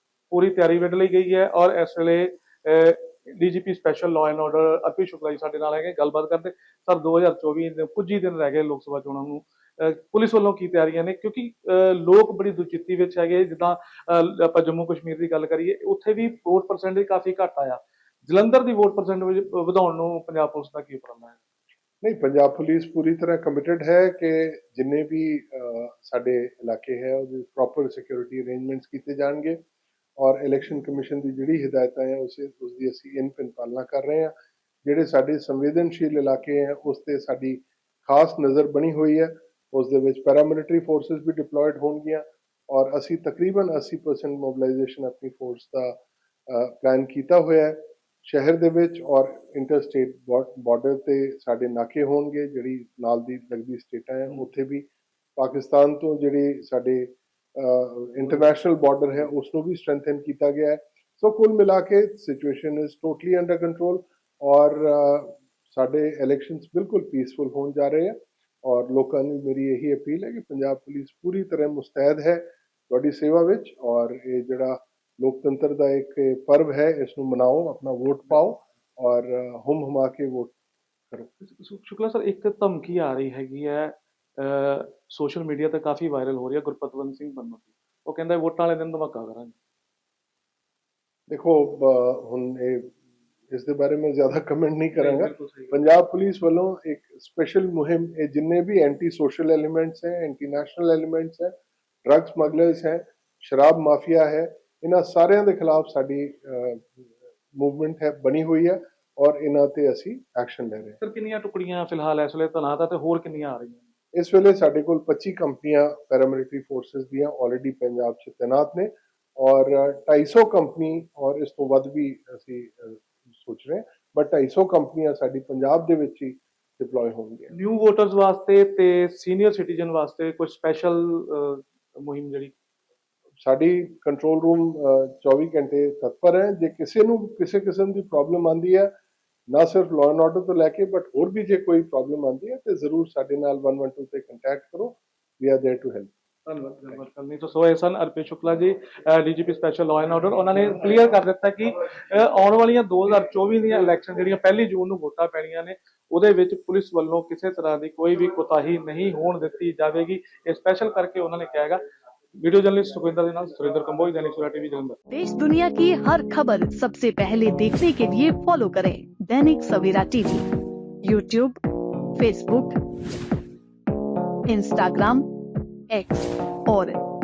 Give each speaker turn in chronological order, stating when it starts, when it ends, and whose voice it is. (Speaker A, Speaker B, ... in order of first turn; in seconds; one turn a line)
Speaker A: 0.3-21.4
Speaker B: 22.0-29.6
Speaker B: 30.2-34.3
Speaker B: 34.8-80.5
Speaker A: 81.4-89.5
Speaker B: 91.3-92.9
Speaker B: 93.5-101.5
Speaker A: 95.0-95.7
Speaker B: 102.0-107.0
Speaker B: 107.5-111.0
Speaker A: 111.0-113.8
Speaker B: 114.1-127.5
Speaker A: 127.5-132.5
Speaker B: 133.4-138.9
Speaker B: 139.5-146.1
Speaker A: 146.4-161.8
Speaker A: 162.3-165.0
Speaker C: 165.1-170.5
Speaker C: 171.0-171.6
Speaker C: 172.2-172.8
Speaker C: 174.5-175.2
Speaker C: 175.9-177.0